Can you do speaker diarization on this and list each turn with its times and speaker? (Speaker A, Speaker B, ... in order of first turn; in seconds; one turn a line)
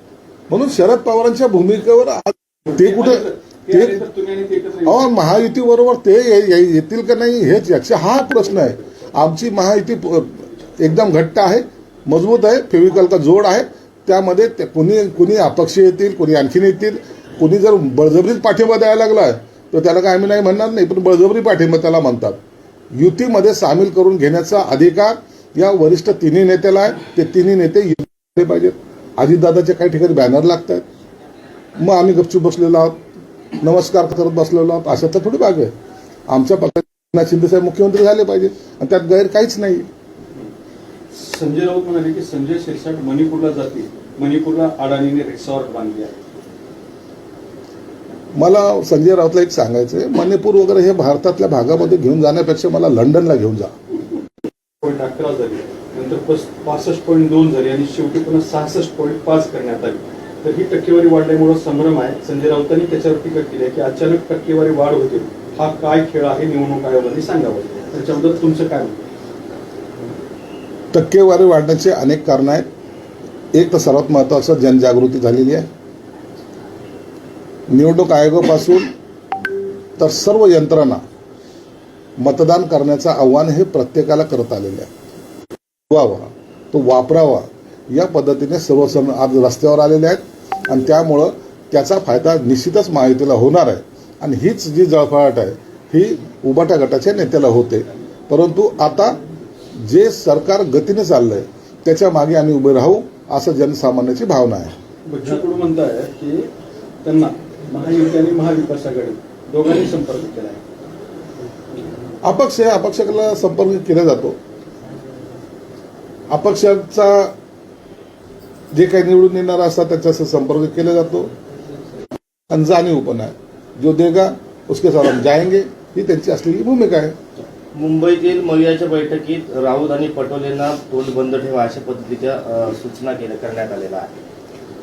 Speaker A: 0.5-4.0
Speaker B: 2.7-5.1
Speaker A: 4.8-22.4
Speaker A: 22.9-30.8
Speaker A: 31.8-33.0
Speaker A: 33.6-35.7
Speaker A: 36.3-39.9
Speaker B: 41.1-46.1
Speaker A: 48.3-53.7
Speaker B: 54.8-69.0
Speaker A: 70.9-72.7
Speaker A: 73.5-75.7
Speaker A: 77.7-78.9
Speaker A: 80.0-81.0
Speaker A: 82.2-84.9
Speaker A: 85.9-99.2
Speaker A: 99.8-104.7
Speaker B: 105.0-106.5
Speaker B: 107.0-110.6
Speaker A: 112.2-114.4
Speaker A: 116.3-117.3
Speaker A: 118.7-121.3
Speaker A: 122.5-127.2
Speaker C: 127.7-134.0